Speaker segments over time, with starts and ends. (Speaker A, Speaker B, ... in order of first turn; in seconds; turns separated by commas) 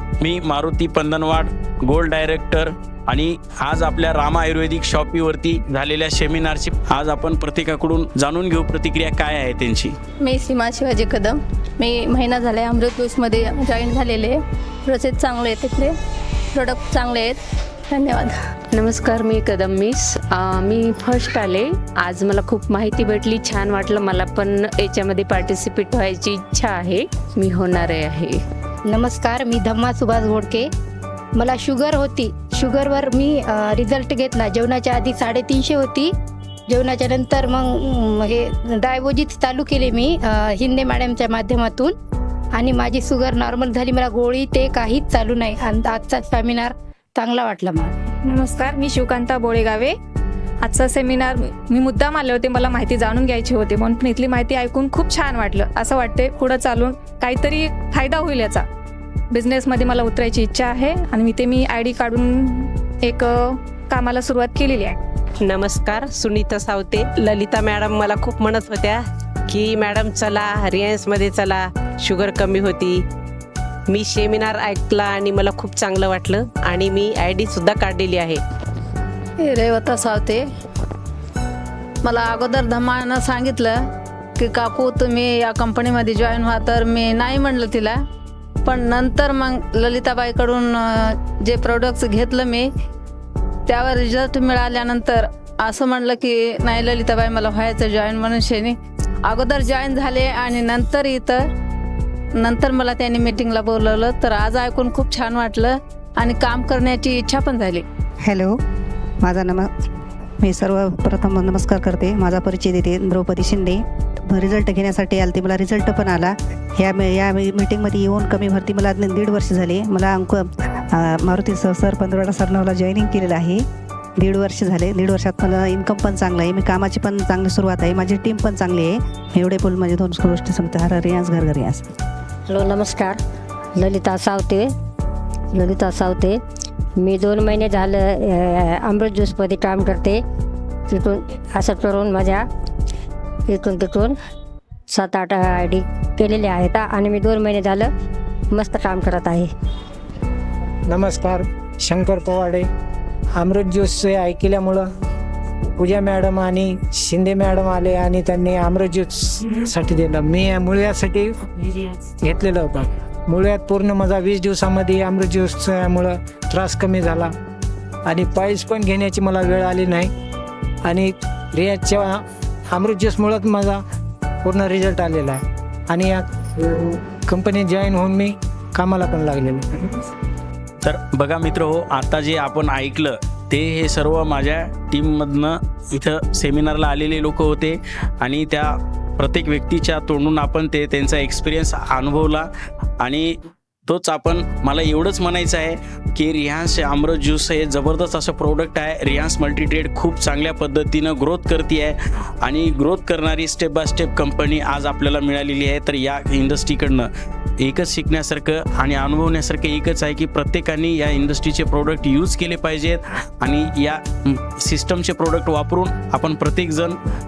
Speaker A: 0.2-9.9, Speaker B: 10.2-15.9, Speaker B: 16.5-17.4, Speaker B: 17.9-18.4, Speaker C: 18.8-28.3, Speaker D: 28.9-30.7, Speaker D: 31.3-36.1, Speaker D: 36.7-41.9, Speaker D: 42.5-47.9, Speaker E: 48.3-49.9, Speaker E: 50.6-58.6, Speaker E: 59.3-65.0, Speaker F: 65.4-73.0, Speaker F: 73.9-78.4, Speaker G: 79.4-80.5, Speaker G: 82.0-83.8, Speaker G: 84.4-88.0, Speaker G: 88.6-92.7, Speaker G: 93.7-101.5, Speaker G: 102.4-107.8, Speaker H: 108.2-108.5, Speaker H: 109.2-109.7, Speaker H: 110.4-113.8, Speaker H: 114.3-123.6, Speaker H: 124.2-131.8, Speaker I: 132.5-133.2, Speaker I: 133.8-134.7, Speaker I: 135.5-136.4, Speaker I: 137.0-140.2, Speaker I: 140.9-142.4, Speaker I: 143.5-144.2, Speaker I: 144.9-147.9, Speaker I: 148.5-149.5, Speaker J: 150.9-152.7, Speaker J: 153.3-154.8, Speaker J: 155.8-161.7, Speaker J: 162.2-167.3, Speaker J: 168.1-170.1, Speaker J: 170.8-172.2, Speaker J: 172.7-173.8, Speaker J: 174.4-179.9, Speaker A: 180.8-192.5, Speaker A: 193.0-193.3, Speaker A: 193.9-207.1, Speaker A: 207.6-217.0